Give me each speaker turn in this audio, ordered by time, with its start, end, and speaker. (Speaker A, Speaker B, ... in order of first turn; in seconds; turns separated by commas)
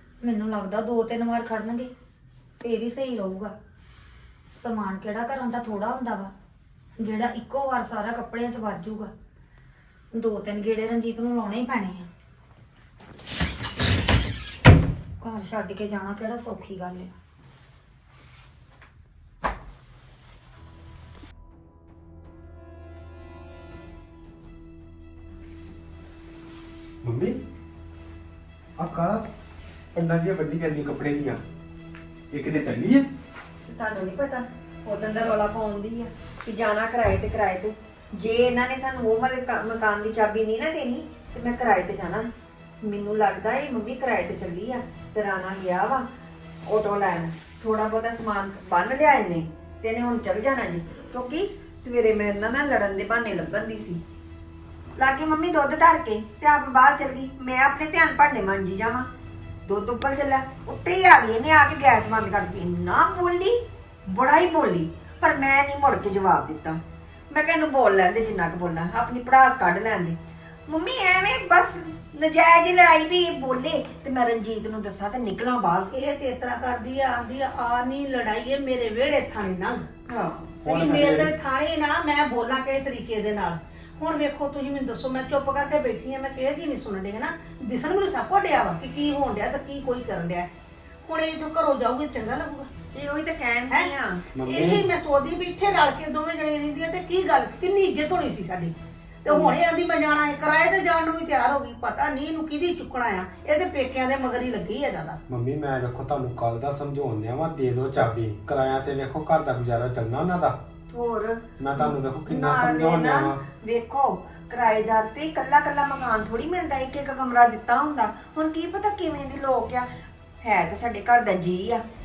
Speaker A: 0.2-1.9, Speaker A: 2.6-3.5, Speaker A: 4.5-6.3, Speaker A: 7.0-9.1, Speaker A: 10.1-12.1, Speaker A: 15.2-17.1, Speaker B: 27.0-27.4, Speaker B: 28.8-29.3, Speaker B: 29.9-31.4, Speaker B: 32.3-33.1, Speaker C: 33.7-42.3, Speaker C: 42.8-46.1, Speaker C: 46.7-54.0, Speaker C: 55.0-59.1, Speaker C: 59.7-70.2, Speaker C: 70.7-75.9, Speaker D: 75.9-79.8, Speaker C: 80.1-81.0, Speaker B: 80.6-81.3, Speaker D: 80.7-90.5, Speaker D: 91.0-92.7, Speaker C: 92.9-94.2, Speaker B: 94.3-94.9, Speaker D: 94.4-105.2, Speaker B: 105.3-110.6, Speaker C: 110.9-119.9, Speaker B: 111.6-113.4, Speaker C: 120.4-121.8